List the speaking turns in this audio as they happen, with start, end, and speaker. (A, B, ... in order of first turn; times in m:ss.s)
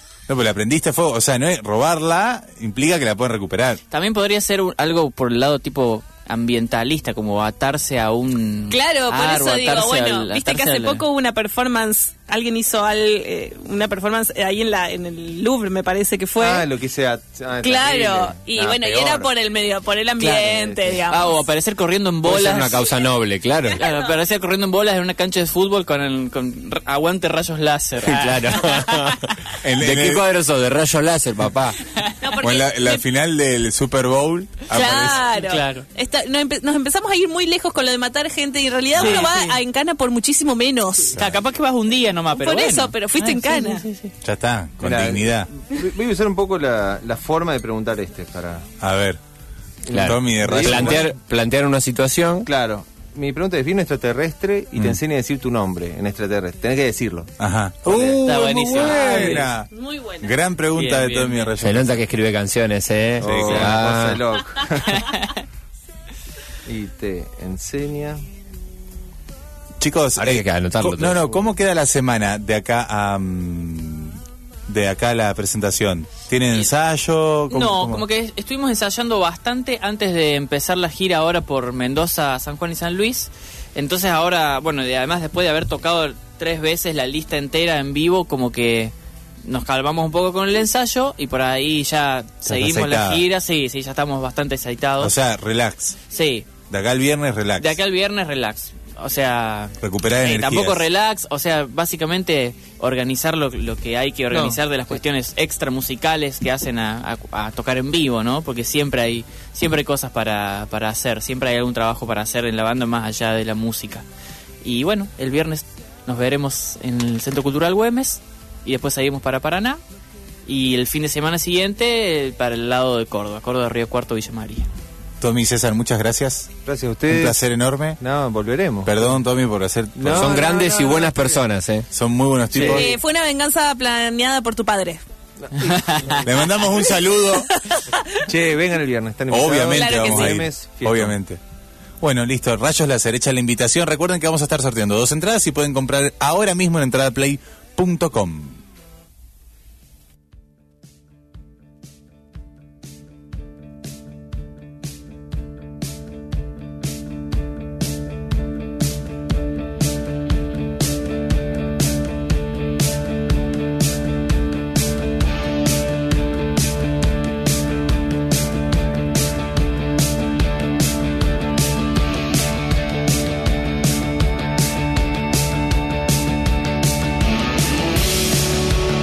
0:00.3-0:03.8 A
0:03.9-0:11.0 B
0:08.7-0:16.7 C
0:16.4-0:19.3 D
0:17.6-0:21.4 C
0:20.2-0:23.0 B
0:20.5-0:20.8 D
0:22.2-0:23.8 E
0:23.8-0:29.4 B
0:23.8-0:24.2 C
0:28.0-0:31.8 E
0:29.6-0:30.2 A
0:31.9-0:32.3 B
0:32.2-0:33.0 C
0:32.4-0:35.2 A
0:34.7-0:41.2 C
0:34.8-0:35.9 B
0:39.0-0:39.3 A
0:39.0-0:39.6 B
0:41.1-0:44.1 B
0:41.2-0:41.4 A
0:42.3-0:43.9 C
0:44.2-0:45.5 A
0:44.8-0:48.7 D
0:48.8-0:49.2 A
0:49.9-0:51.1 D
0:49.9-0:51.1 A
0:49.9-0:52.5 E
0:52.5-0:57.3 D
0:57.4-0:59.7 A
0:57.8-0:58.2 D
0:58.2-0:59.5 B
0:58.8-0:59.5 D
0:59.7-1:00.3 C
1:00.2-1:02.0 A
1:00.7-1:01.5 B
1:01.6-1:04.2 E
1:03.2-1:03.7 A
1:03.2-1:05.0 D
1:03.4-1:03.7 B
1:04.9-1:05.4 B
1:06.6-1:08.2 D
1:09.8-1:18.0 A
1:10.2-1:11.4 E
1:17.5-1:35.1 B
1:32.5-1:33.2 A
1:35.0-1:36.0 A
1:36.1-1:36.5 B
1:36.7-1:37.8 A
1:37.6-1:54.0 B
1:39.8-1:40.8 A
1:44.3-1:44.6 D
1:54.6-1:59.8 B
2:00.5-2:04.7 B
2:05.2-2:06.5 A
2:06.6-2:07.4 D
2:07.1-2:08.0 A
2:08.0-2:09.1 D
2:08.8-2:10.4 A
2:10.0-2:11.4 D
2:10.1-2:11.9 E
2:11.9-2:12.9 A
2:12.5-2:12.8 B
2:12.6-2:15.0 C
2:15.5-2:16.2 D
2:15.6-2:16.1 B
2:16.2-2:17.5 A
2:17.4-2:18.3 C
2:18.2-2:21.2 D
2:19.3-2:21.4 A
2:19.7-2:20.4 C
2:22.0-2:28.6 A